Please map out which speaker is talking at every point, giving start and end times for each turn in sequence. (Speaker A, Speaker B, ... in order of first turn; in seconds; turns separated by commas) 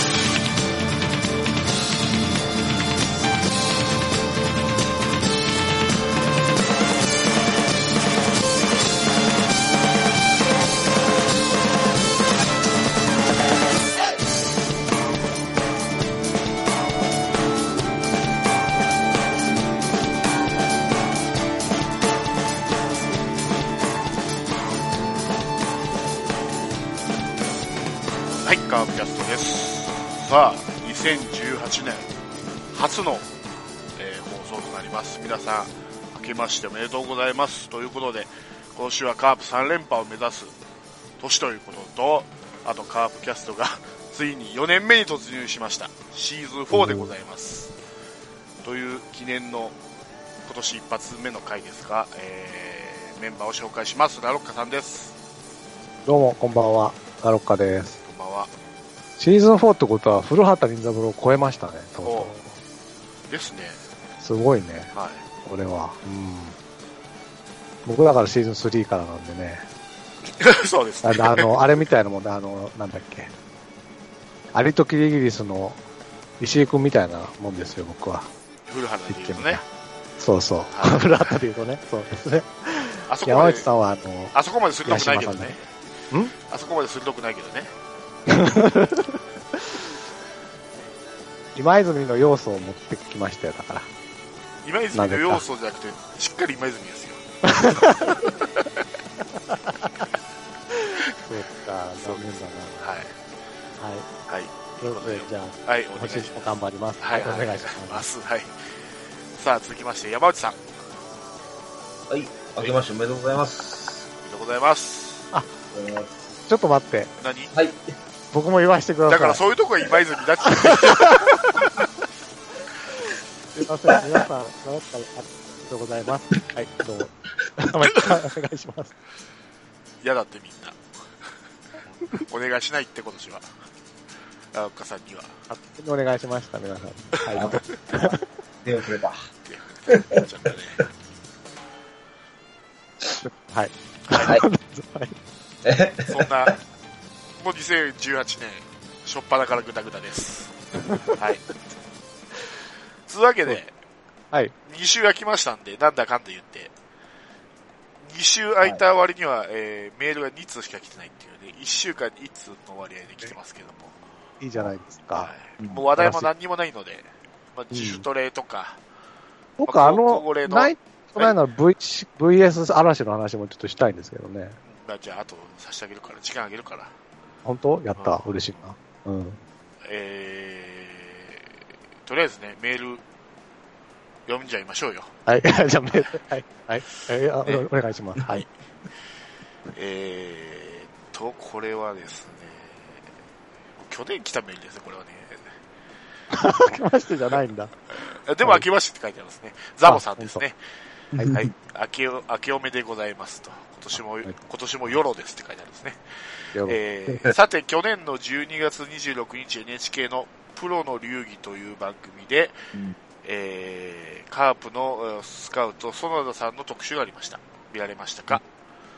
Speaker A: 28.4-32.1, Speaker A: 32.7-33.3, Speaker A: 34.0-40.5, Speaker A: 41.2-47.7, Speaker B: 46.7-47.1, Speaker A: 48.6-49.8, Speaker A: 50.5-55.1, Speaker B: 56.0-58.0, Speaker A: 58.0-58.5, Speaker B: 59.2-62.5, Speaker A: 62.0-62.3, Speaker A: 63.3-63.8, Speaker B: 64.2-64.9, Speaker A: 64.9-65.2, Speaker B: 65.4-66.6, Speaker B: 67.8-69.7, Speaker A: 70.4-71.6, Speaker B: 71.0-73.3, Speaker B: 74.5-75.8, Speaker B: 76.4-78.3, Speaker A: 78.7-79.6, Speaker B: 79.1-79.6, Speaker B: 80.2-84.3, Speaker A: 80.7-81.3, Speaker A: 83.1-83.7, Speaker A: 84.3-85.7, Speaker B: 84.8-85.5, Speaker A: 86.4-87.7, Speaker B: 88.3-89.9, Speaker B: 91.5-93.9, Speaker A: 94.6-98.8, Speaker B: 94.9-95.4, Speaker B: 97.4-98.3, Speaker B: 99.5-99.9, Speaker B: 100.7-103.0, Speaker A: 102.0-103.1, Speaker B: 103.8-104.1, Speaker A: 104.3-108.7, Speaker B: 104.8-108.0, Speaker A: 109.3-110.6, Speaker C: 112.1-114.1, Speaker A: 114.2-115.3, Speaker C: 115.7-116.1, Speaker B: 116.5-117.1, Speaker A: 117.2-117.5, Speaker B: 118.3-119.4, Speaker A: 119.1-121.5, Speaker B: 120.5-121.8, Speaker B: 122.9-128.9, Speaker A: 130.0-130.8, Speaker A: 131.9-133.5, Speaker A: 134.5-135.3, Speaker B: 135.5-138.2, Speaker C: 137.3-137.6, Speaker C: 138.6-139.3, Speaker A: 139.5-140.8, Speaker C: 139.9-140.2, Speaker B: 143.2-145.2, Speaker A: 144.1-144.4, Speaker C: 145.6-146.3, Speaker A: 146.1-146.6, Speaker A: 147.4-150.6, Speaker A: 151.1-151.5, Speaker A: 153.1-153.7, Speaker A: 154.7-156.7, Speaker A: 158.0-164.0, Speaker B: 164.4-165.3, Speaker A: 165.2-168.8, Speaker C: 165.6-165.9, Speaker B: 166.0-166.3, Speaker B: 167.7-168.0, Speaker B: 169.6-174.6, Speaker A: 169.7-171.4, Speaker A: 174.7-176.9, Speaker B: 177.4-179.4, Speaker A: 177.9-178.2, Speaker A: 179.8-181.5, Speaker A: 182.1-183.0, Speaker A: 184.3-185.1, Speaker B: 185.2-188.4, Speaker A: 189.7-193.0, Speaker A: 193.8-195.5, Speaker B: 196.3-197.7, Speaker A: 198.1-200.6, Speaker B: 199.8-200.4, Speaker C: 201.1-201.5, Speaker A: 201.3-206.0, Speaker A: 206.6-212.6, Speaker A: 213.2-218.4